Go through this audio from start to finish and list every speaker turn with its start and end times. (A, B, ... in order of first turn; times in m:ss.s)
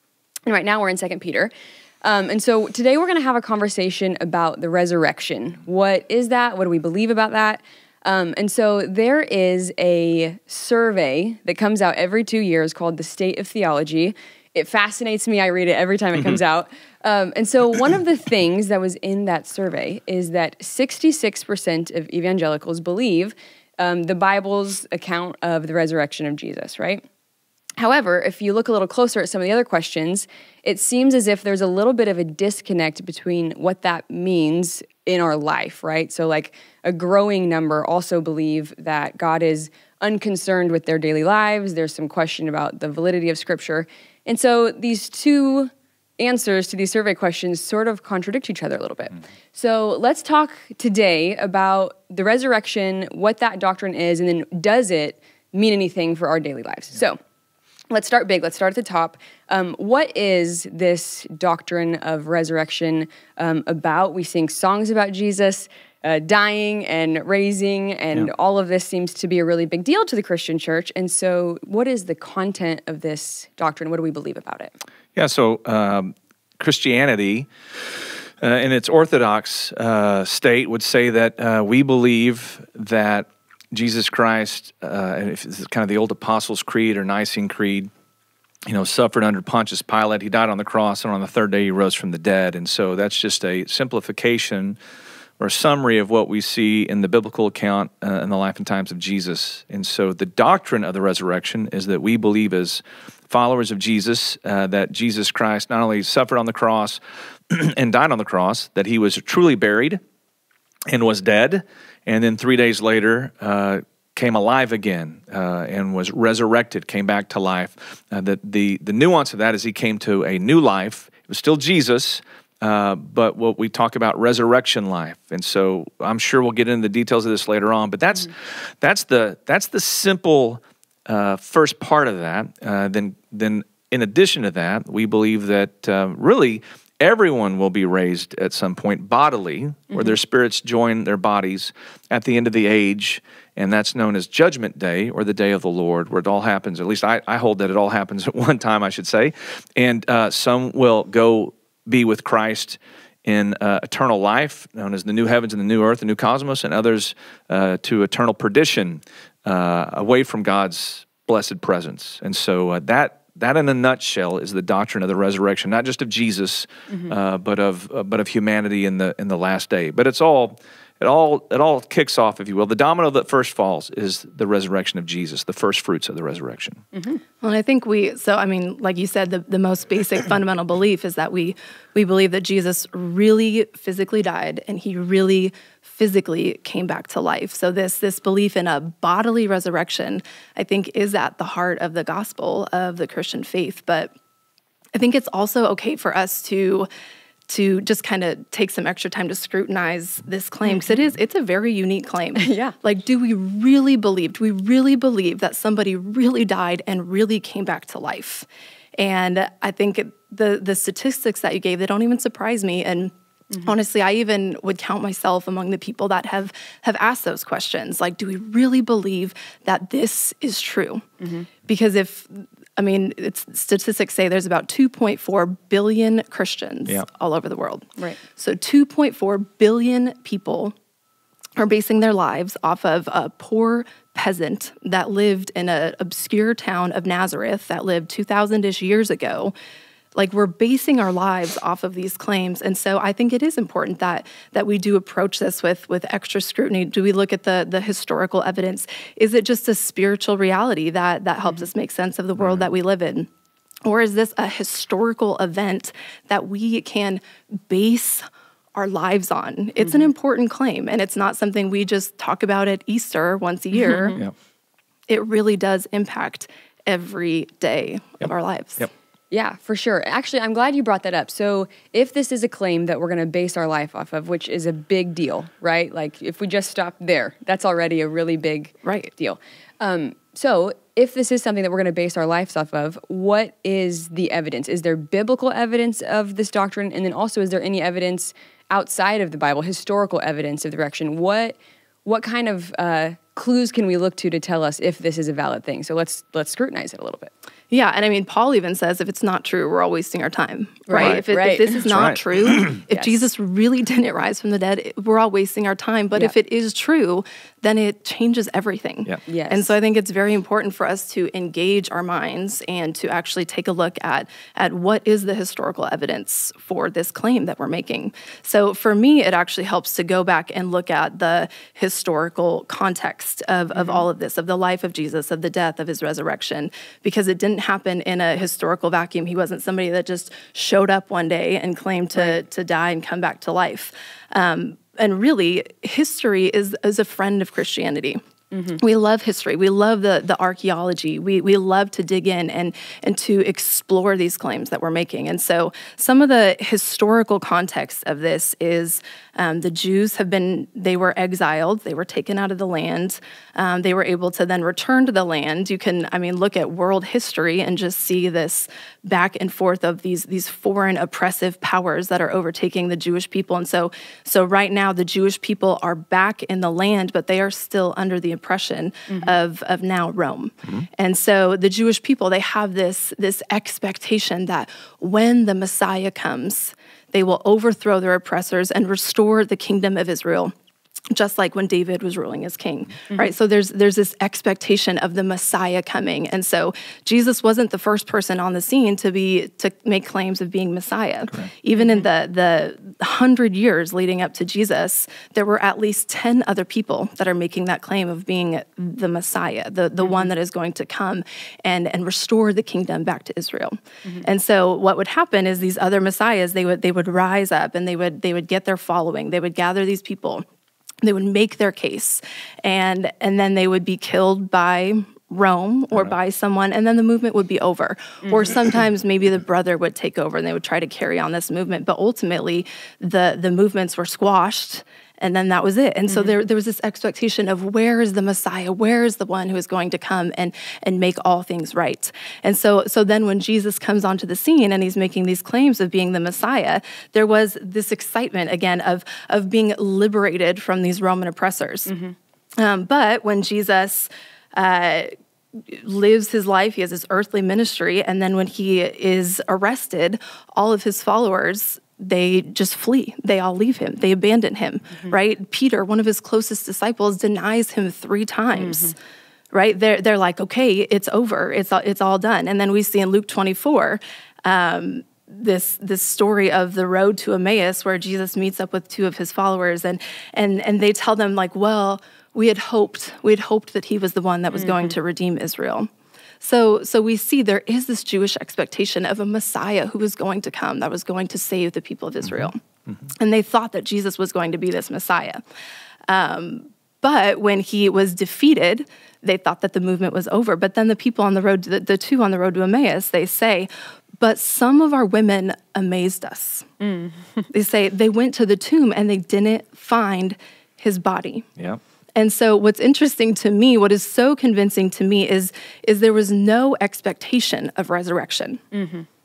0:00.5-0:01.5 A
0:02.0-0:27.0 A
0:27.8-0:57.2 A
0:57.9-1:14.8 A
1:15.2-1:27.9 B
1:28.7-1:34.8 B
1:35.4-1:50.0 B
1:50.9-2:56.8 B
2:56.9-2:57.2 A
2:57.4-3:14.1 C
3:15.0-3:16.9 C
3:17.5-3:28.5 C
3:20.7-3:21.0 A
3:22.4-3:22.7 A
3:29.0-3:41.0 C
3:41.2-3:41.5 A
3:41.6-3:47.9 C
3:48.4-3:50.7 C
3:51.6-3:59.5 C
4:00.2-4:13.3 C
4:12.4-4:12.7 B
4:13.8-4:24.2 C
4:19.8-4:20.1 A
4:23.7-4:24.2 A
4:25.1-4:28.8 C
4:28.2-4:28.9 B
4:29.3-4:57.3 A
4:38.8-4:39.1 C
4:57.7-5:38.2 C
5:00.9-5:02.1 A
5:01.9-5:02.8 B
5:02.7-5:03.2 A
5:09.3-5:09.7 A
5:23.7-5:24.1 A
5:38.5-5:38.8 A
5:38.8-6:20.5 C
6:09.1-6:09.4 A
6:21.1-6:50.4 C
6:31.8-6:32.1 A
6:40.0-6:40.3 A
6:51.0-7:21.9 C
6:58.2-6:58.5 A
7:06.1-7:06.4 A
7:21.9-7:22.2 A
7:22.6-7:25.1 C
7:25.7-7:38.9 C
7:38.6-7:38.9 A
7:39.5-7:55.9 C
7:54.5-7:55.0 A
7:56.4-8:02.6 C
8:02.2-8:03.1 B
8:03.2-8:05.4 C
8:06.1-8:16.7 C
8:16.8-8:17.5 A
8:17.5-8:21.5 C
8:22.2-8:28.6 C
8:28.7-8:29.1 A